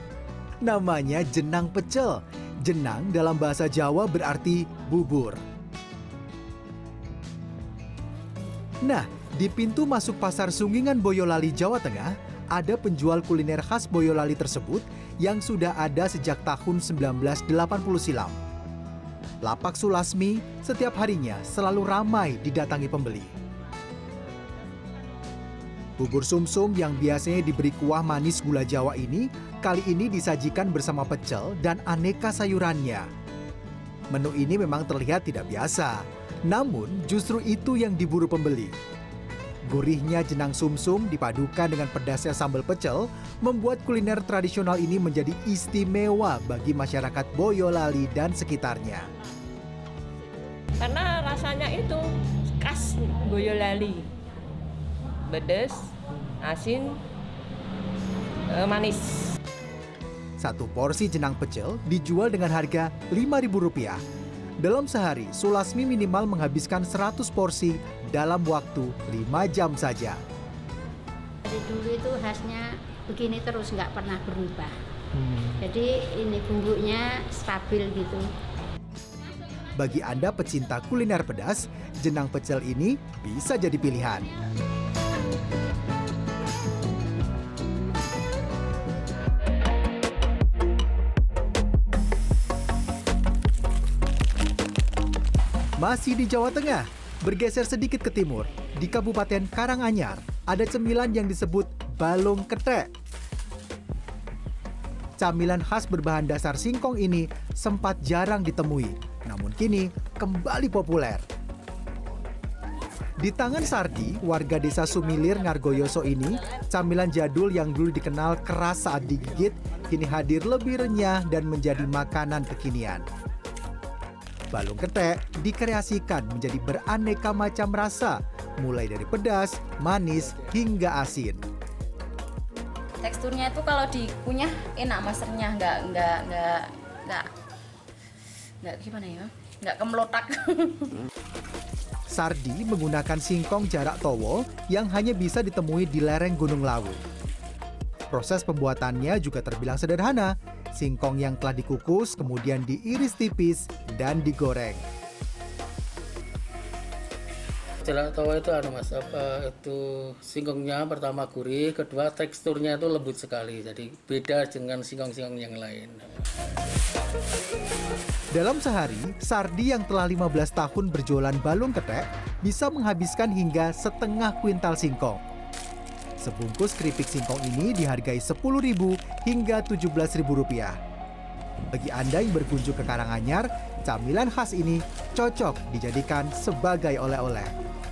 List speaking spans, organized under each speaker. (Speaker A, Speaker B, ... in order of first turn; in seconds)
Speaker A: 0.6-5.4, 8.8-18.4, 19.4-23.3, 26.0-33.1, 34.1-38.8, 39.6-49.1, 60.4-64.0, 64.6-70.2, 79.8-84.3, 95.8-102.9, 105.2-111.2, 113.2-123.0, 124.5-131.4, 142.1-147.0, 148.1-154.8, 168.3-175.2, 176.2-180.8, 181.7-187.5
Speaker B: 50.8-54.1, 55.2-57.0, 58.5-59.4
Speaker C: 71.5-74.7, 75.4-78.3
Speaker D: 133.0-137.3, 138.6-141.0
Speaker E: 157.8-166.0